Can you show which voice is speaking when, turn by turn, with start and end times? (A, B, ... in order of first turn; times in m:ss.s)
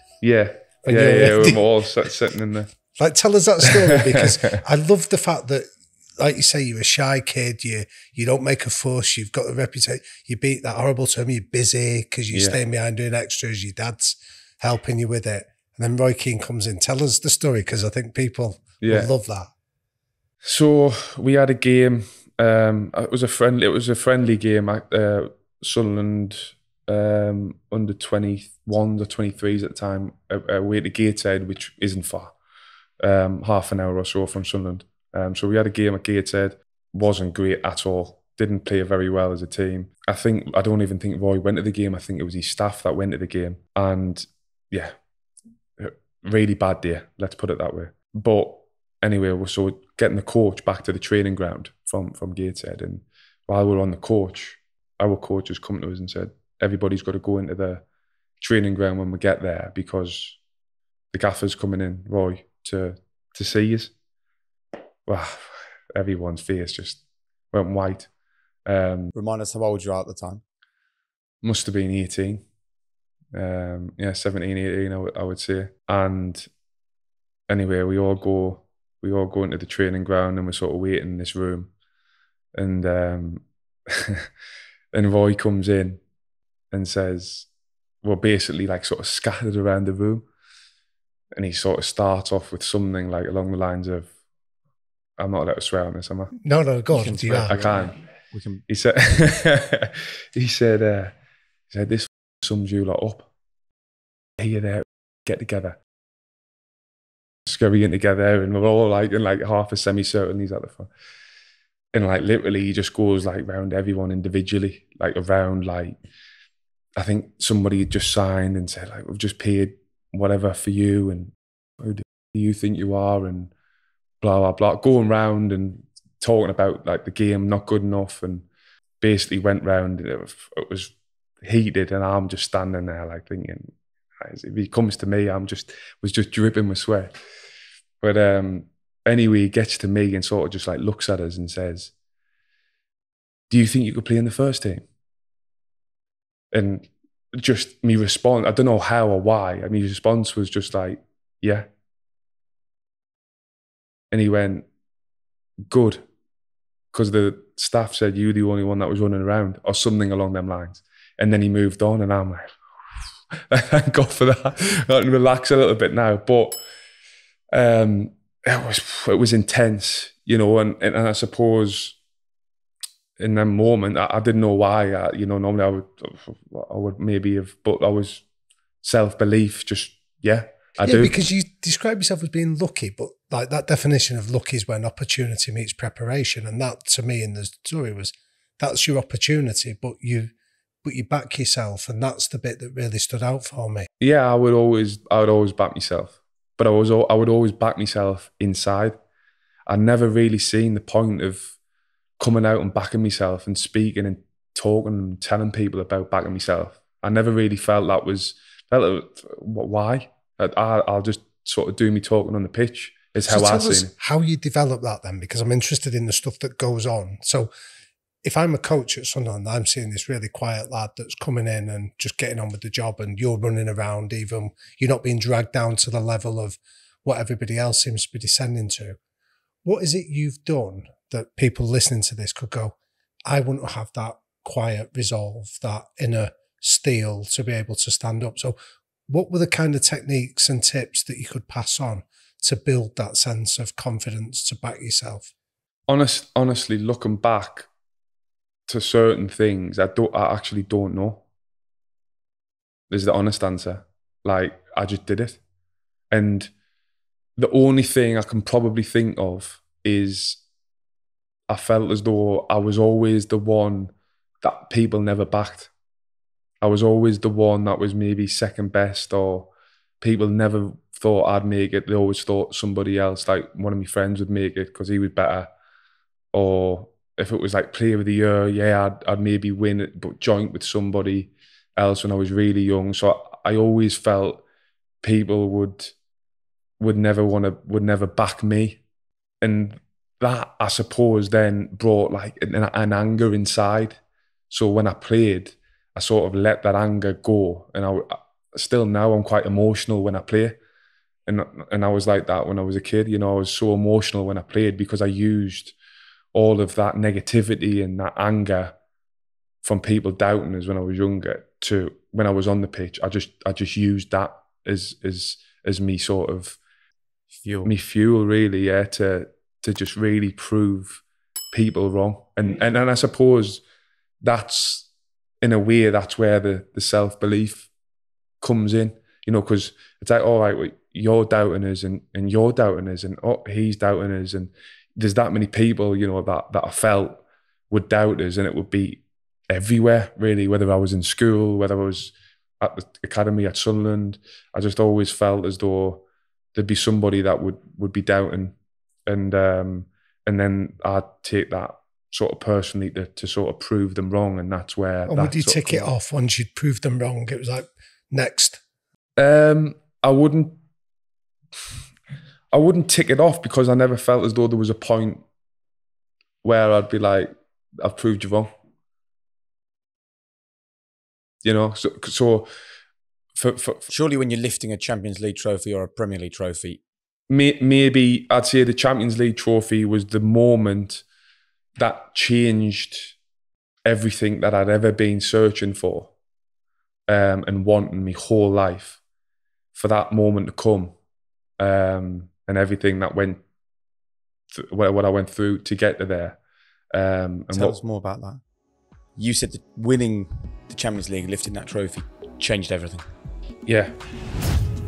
0:00.2-0:02.7 A
0:00.8-0:01.6 B
0:03.0-0:05.6 B
0:06.2-0:19.5 B
0:12.3-0:12.6 A
0:18.8-0:19.1 A
0:20.4-0:32.3 A
0:33.0-0:44.9 A
0:45.8-0:57.8 A
0:58.4-1:00.4 A
1:01.1-1:03.9 A
1:05.1-1:08.1 A
1:08.6-1:09.1 A
1:09.1-1:10.4 C
1:11.4-1:12.4 A
1:13.3-1:16.5 A
1:17.5-1:21.7 A
1:22.6-1:24.3 A
1:24.9-1:26.0 A
1:26.7-1:27.5 A
1:28.0-1:30.2 A
1:31.4-1:34.1 A
1:35.2-1:36.3 A
1:36.4-1:37.6 B
1:36.9-1:38.6 C
1:37.4-1:38.0 A
1:38.7-1:41.1 A
1:41.7-1:43.3 A
1:44.4-1:45.8 A
1:47.4-1:50.9 A
1:51.9-1:56.0 A
1:57.0-2:03.5 A
2:04.2-2:08.5 A
2:09.0-2:17.1 A
2:18.0-2:21.9 A
2:23.5-2:24.8 A
2:26.5-2:31.7 A
2:34.1-2:34.7 A
2:35.7-2:36.0 A
2:36.9-2:42.4 A
2:43.5-2:46.6 A
2:47.5-2:52.0 A
2:53.2-2:58.2 A
2:58.8-3:01.2 A
3:00.8-3:10.3 B
3:10.8-3:13.9 B
3:14.0-3:18.9 A
3:19.7-3:21.5 A
3:22.2-3:33.9 A
3:33.3-3:37.5 B
3:38.2-3:49.0 B
3:49.6-3:52.8 B
3:53.3-3:58.6 B
3:59.1-4:05.3 B
4:05.9-4:07.7 A
4:08.7-4:11.2 A
4:12.9-4:15.4 A
4:16.1-4:16.5 A
4:17.4-4:20.4 A
4:21.5-4:25.7 A
4:26.6-4:35.5 A
4:36.3-4:44.4 A
4:45.0-4:45.9 A
4:46.8-4:48.8 A
4:49.4-4:54.0 A
4:54.5-5:00.6 A
5:01.3-5:05.7 A
5:06.3-5:08.7 A
5:09.6-5:16.6 A
5:17.4-5:17.7 C
5:17.6-5:23.6 A
5:24.2-5:24.9 A
5:25.4-5:27.7 A
5:28.4-5:46.0 A
5:46.5-5:48.5 A
5:49.1-5:55.9 A
5:55.1-5:58.6 B
5:59.2-6:00.6 A
6:02.5-6:05.2 A
6:06.4-6:08.5 A
6:11.4-6:12.5 A
6:13.3-6:13.9 A
6:13.9-6:16.8 C
6:17.3-6:21.0 A
6:21.8-6:23.2 A
6:23.8-6:26.1 A
6:27.1-6:29.0 A
6:29.7-6:30.9 A
6:31.6-6:33.4 A
6:34.5-6:36.4 A
6:36.9-6:37.8 A
6:37.5-6:38.4 C
6:39.2-6:43.1 C
6:43.7-6:43.9 A